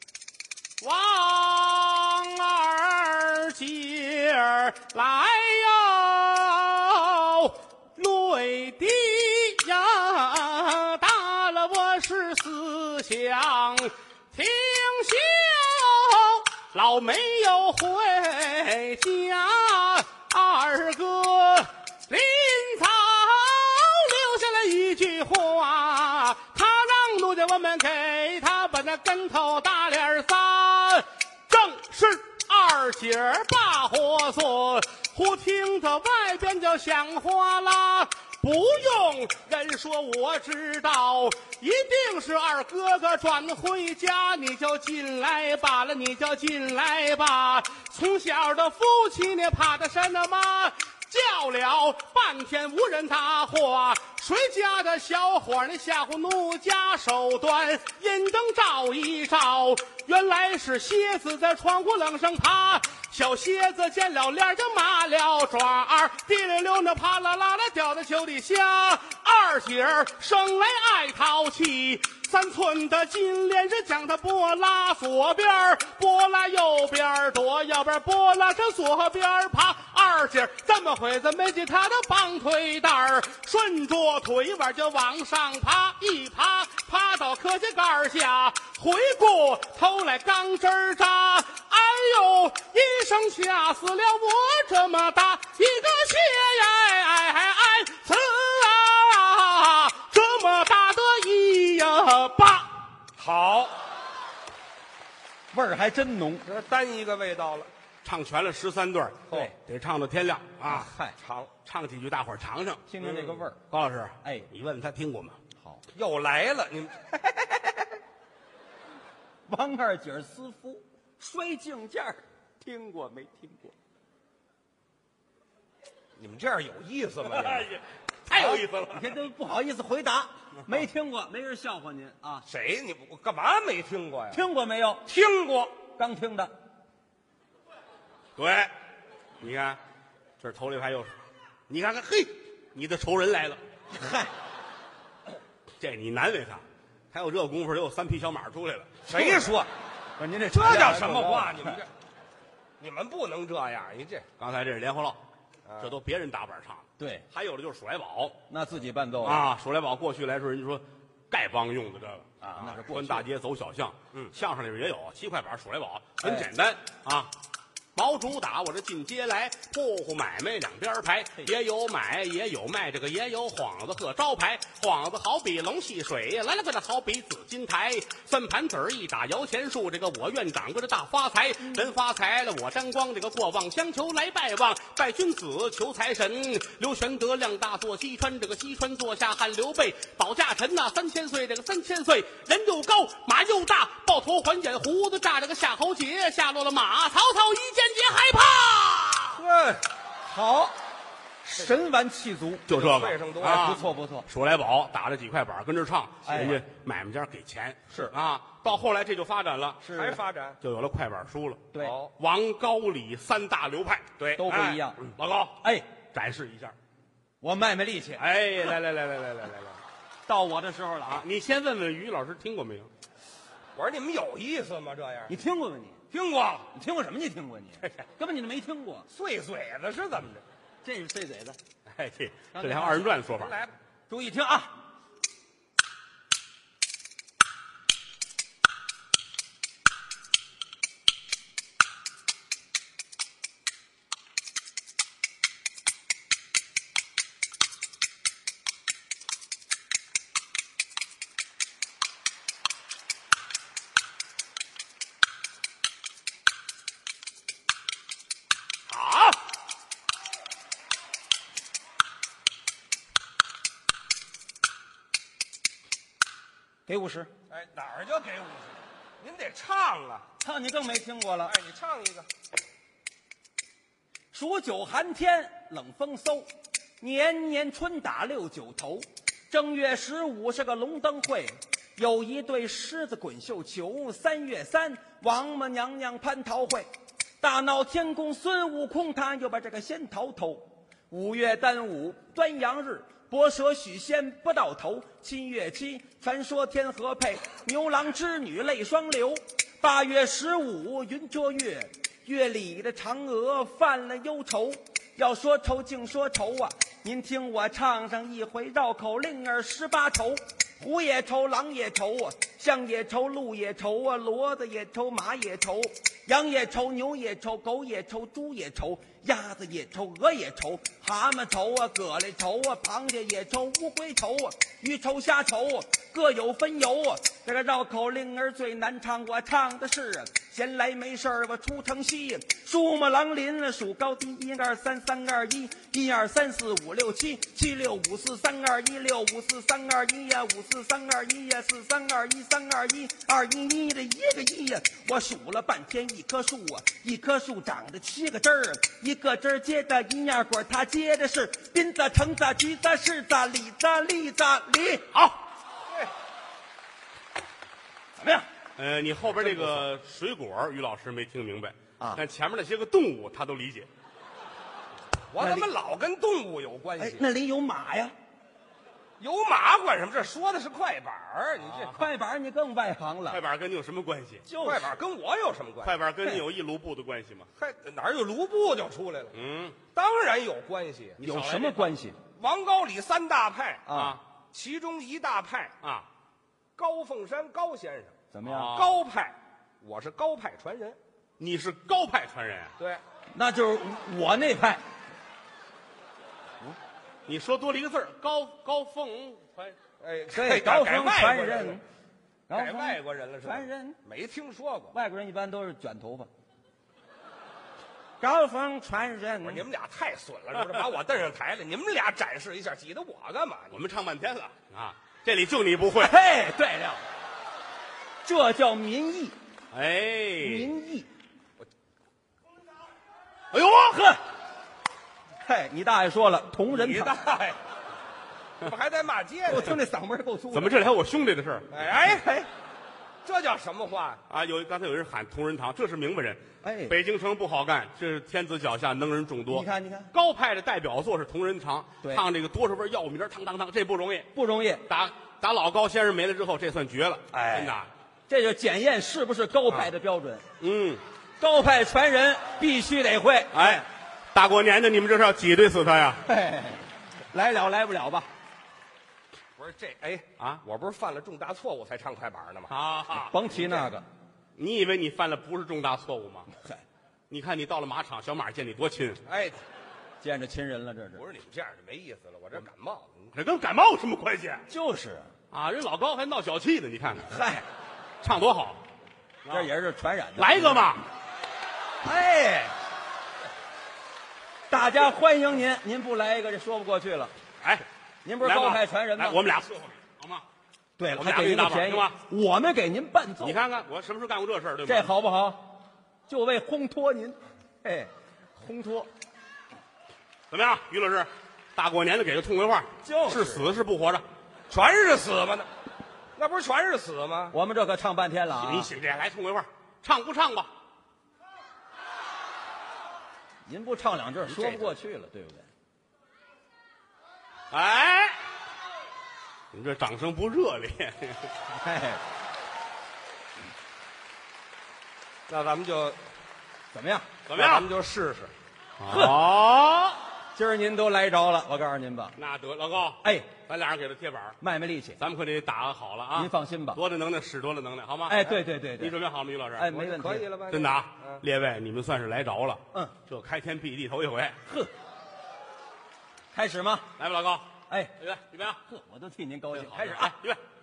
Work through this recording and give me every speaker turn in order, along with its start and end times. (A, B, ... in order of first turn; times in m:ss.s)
0:00.8-1:42.9 A
1:43.2-1:43.7 B
1:45.5-1:46.4 C
1:46.4-1:47.7 B
1:48.0-1:50.9 A
1:50.6-1:51.2 C
1:51.2-1:51.5 B
1:51.6-1:52.9 A
1:52.9-1:53.6 C
1:53.0-1:53.5 B
1:53.7-1:55.4 A
1:54.2-1:54.5 C
1:55.6-1:55.8 C
1:55.9-1:57.1 B
1:57.4-1:57.8 C
1:59.5-2:03.7 C
2:06.2-2:07.7 B
2:07.3-2:09.2 A
2:08.3-2:12.4 C
2:12.5-2:14.4 B
2:14.3-2:15.1 C
2:15.1-2:15.8 B
2:15.9-2:16.5 C
2:18.4-2:18.7 A
2:19.4-2:19.8 A
2:20.4-2:21.1 A
2:21.7-2:23.6 A
2:23.9-2:24.3 C
2:25.8-2:29.0 A
2:29.0-2:29.7 B
2:29.1-2:29.5 C
2:30.2-2:31.8 C
2:30.5-2:31.9 B
2:32.8-2:34.2 B
2:34.4-2:35.2 A
2:35.6-2:35.9 B
2:35.8-2:38.4 A
2:37.0-2:37.2 C
2:38.5-2:39.5 C
2:39.2-2:47.3 A
2:42.4-2:43.3 C
2:46.2-2:46.5 C
2:47.9-3:19.4 A
3:19.3-3:19.8 B
3:20.2-3:20.7 C
3:21.4-3:22.7 C
3:22.7-3:29.8 A
3:22.7-3:23.8 B
3:23.4-3:24.3 C
3:26.2-3:26.6 C
3:29.8-3:30.2 C
3:29.9-3:30.6 B
3:30.6-3:34.1 A
3:31.8-3:32.1 B
3:34.2-3:34.8 B
3:34.4-3:35.0 C
3:35.0-3:36.7 A
3:35.6-3:35.9 C
3:37.4-3:38.2 C
3:38.2-3:39.7 A
3:40.2-3:41.2 C
3:41.0-3:42.9 A
3:43.8-3:45.3 B
3:45.3-3:46.0 C
3:46.1-3:46.7 B
3:46.7-3:49.1 C
3:49.1-3:50.4 B
3:50.8-3:51.6 C
3:51.9-3:53.6 A
3:52.5-3:53.1 C
3:53.1-3:53.7 B
3:54.1-3:54.7 C
4:18.9-4:19.4 A
4:26.9-4:27.3 C
4:27.5-4:30.3 B
4:30.4-4:31.5 C
4:31.4-4:32.2 B
4:34.3-4:46.9 C
4:47.4-5:55.1 C
5:55.1-5:55.4 A
5:58.2-5:58.5 C
5:58.8-6:03.9 A
6:05.3-6:07.2 B
6:05.4-6:05.7 C
6:07.0-6:08.1 C
6:09.2-6:11.9 B
6:11.6-6:12.0 A
6:11.9-6:13.4 C
6:13.3-6:14.4 A
6:14.4-6:15.0 C
6:14.6-6:16.0 B
6:15.8-6:17.5 A
6:17.6-6:19.3 B
6:19.3-6:19.8 A
6:19.9-6:21.2 B
6:21.2-6:21.9 A
6:21.2-6:22.2 C
6:22.4-6:23.9 B
6:23.8-6:24.2 C
6:23.9-6:24.2 A
6:24.5-6:25.7 B
6:25.8-6:26.1 A
6:26.8-6:28.2 B
6:28.3-6:28.7 C
6:28.4-6:29.0 A
6:28.7-6:31.0 B
6:31.4-6:32.7 A
6:33.3-6:34.8 C
6:37.3-6:39.8 A
6:40.0-6:41.8 B
6:40.3-6:41.8 C
6:42.5-6:44.0 C
6:42.5-6:44.9 B
6:44.9-6:46.3 C
6:48.2-6:49.7 C
6:49.4-6:53.8 B
6:53.7-6:56.2 A
6:56.0-6:57.0 C
6:58.2-6:59.4 C
6:59.7-7:00.7 A
7:00.4-7:01.1 C
7:03.5-7:04.0 A
7:03.9-7:04.2 C
7:05.4-7:07.2 C
7:06.7-7:07.6 B
7:08.6-7:09.8 B
7:09.4-7:10.8 C
7:10.5-7:11.8 A
7:11.7-7:12.4 B
7:12.0-7:12.5 C
7:13.2-7:14.2 B
7:14.3-7:24.3 A
7:16.6-7:17.0 C
7:19.5-7:20.1 C
7:24.3-7:24.8 C
7:24.9-7:27.9 A
7:27.3-7:27.7 C
7:28.3-7:30.4 C
7:30.6-7:31.0 A
7:31.4-7:33.8 C
7:33.5-7:36.2 A
7:36.3-7:38.3 C
7:39.6-7:42.7 B
7:42.7-7:43.4 A
7:43.1-7:44.0 C
7:43.5-7:43.9 B
7:44.6-7:46.5 A
7:46.5-7:46.8 C
7:47.3-7:49.2 A
7:49.2-7:49.6 B
7:50.2-7:51.2 C
7:51.1-7:53.3 B
7:53.3-7:54.6 A
7:54.7-7:55.3 C
7:55.5-7:57.3 A
7:57.3-7:57.6 C
7:58.2-7:58.8 A
7:59.4-7:59.7 A
7:59.5-8:00.9 C
8:00.4-8:01.0 A
8:02.0-8:02.7 C
8:04.7-8:07.3 C
8:08.2-8:09.4 C
8:08.4-8:10.4 A
8:11.0-8:13.6 C
8:11.1-8:12.2 A
8:13.4-8:15.1 A
8:14.8-8:19.1 C
8:20.5-8:24.2 A
8:23.0-8:23.7 C
8:24.7-8:25.7 B
8:26.4-8:27.5 B
8:27.5-8:28.9 C
8:28.6-8:30.7 A
8:33.6-8:35.7 C
8:34.5-8:34.8 A
8:37.7-8:38.4 A
8:39.7-8:41.5 A
8:41.7-8:42.2 C
8:45.5-8:46.2 B
8:46.9-8:47.3 C
8:47.5-8:47.9 A
8:47.5-8:48.5 B
8:49.0-8:50.2 A
8:49.1-8:49.4 C
8:50.5-8:52.4 C
8:52.4-8:54.6 A
8:53.2-8:53.5 C
8:54.6-8:55.2 C
8:55.2-8:59.9 A
8:56.3-8:57.0 C
8:58.3-8:59.2 C
8:59.8-9:00.5 C
8:59.9-9:01.4 B
9:00.7-9:04.6 A
9:06.5-9:07.1 C
9:07.2-9:08.8 A
9:07.9-9:08.2 C
9:08.8-9:10.4 C
9:09.7-9:10.6 A